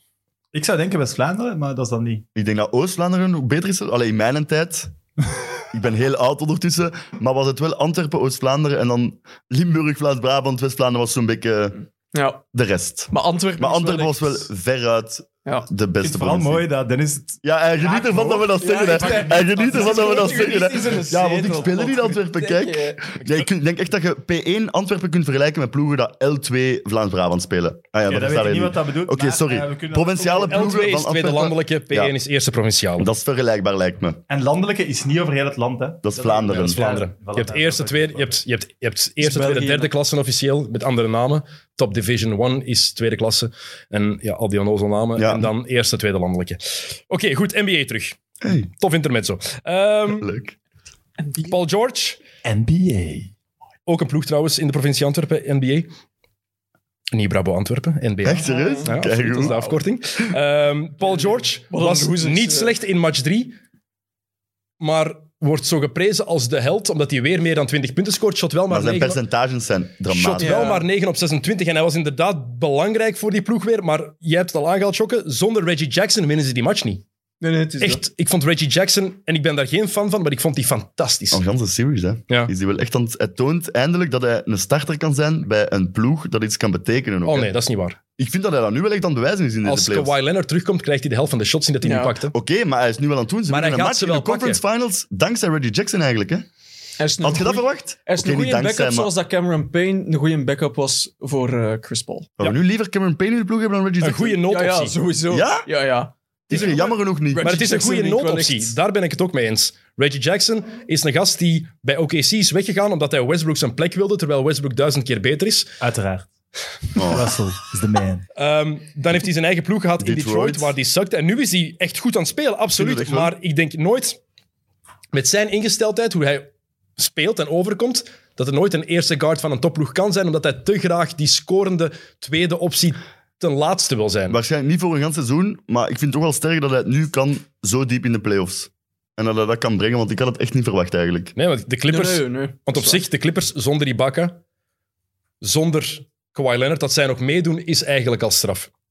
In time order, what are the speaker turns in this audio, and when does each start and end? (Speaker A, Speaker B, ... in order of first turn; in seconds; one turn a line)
Speaker A: 0.5-2.2
Speaker B: 2.4-4.9
Speaker B: 5.7-11.8
Speaker C: 12.1-12.4
Speaker B: 12.5-16.7
Speaker C: 13.1-14.5
Speaker A: 16.0-21.0
Speaker B: 17.4-32.1
Speaker C: 18.6-23.1
Speaker A: 28.1-30.9
Speaker D: 30.5-33.1
Speaker B: 33.0-34.2
Speaker A: 34.3-38.4
Speaker B: 36.0-36.8
Speaker D: 36.6-50.3
Speaker C: 39.2-39.9
Speaker B: 45.2-45.5
Speaker B: 48.4-48.7
Speaker B: 50.1-50.6
Speaker C: 51.2-51.5
Speaker D: 51.5-52.2
Speaker A: 52.4-53.3
Speaker D: 53.9-55.9
Speaker D: 57.1-63.6
Speaker B: 58.2-59.6
Speaker C: 58.4-59.8
Speaker C: 61.7-62.8
Speaker D: 64.8-69.2
Speaker B: 68.7-70.6
Speaker D: 70.1-77.0
Speaker C: 70.4-70.8
Speaker C: 77.4-78.0
Speaker D: 77.8-81.4
Speaker B: 81.3-87.5
Speaker D: 87.3-88.0
Speaker B: 88.2-90.1
Speaker D: 89.6-92.3
Speaker C: 91.8-92.2
Speaker B: 92.3-96.5
Speaker D: 93.5-94.6
Speaker C: 97.0-102.3
Speaker B: 97.2-99.1
Speaker B: 102.4-104.4
Speaker D: 104.0-105.0
Speaker C: 104.5-108.8
Speaker B: 105.3-105.7
Speaker B: 106.5-107.5
Speaker D: 107.4-115.7
Speaker A: 115.8-116.3
Speaker B: 117.0-117.3
Speaker A: 117.0-118.2
Speaker D: 118.4-124.2
Speaker B: 120.0-120.7
Speaker B: 122.7-123.3
Speaker D: 125.1-134.4
Speaker B: 134.3-141.3
Speaker D: 141.3-144.4
Speaker C: 141.9-143.0
Speaker D: 145.4-148.7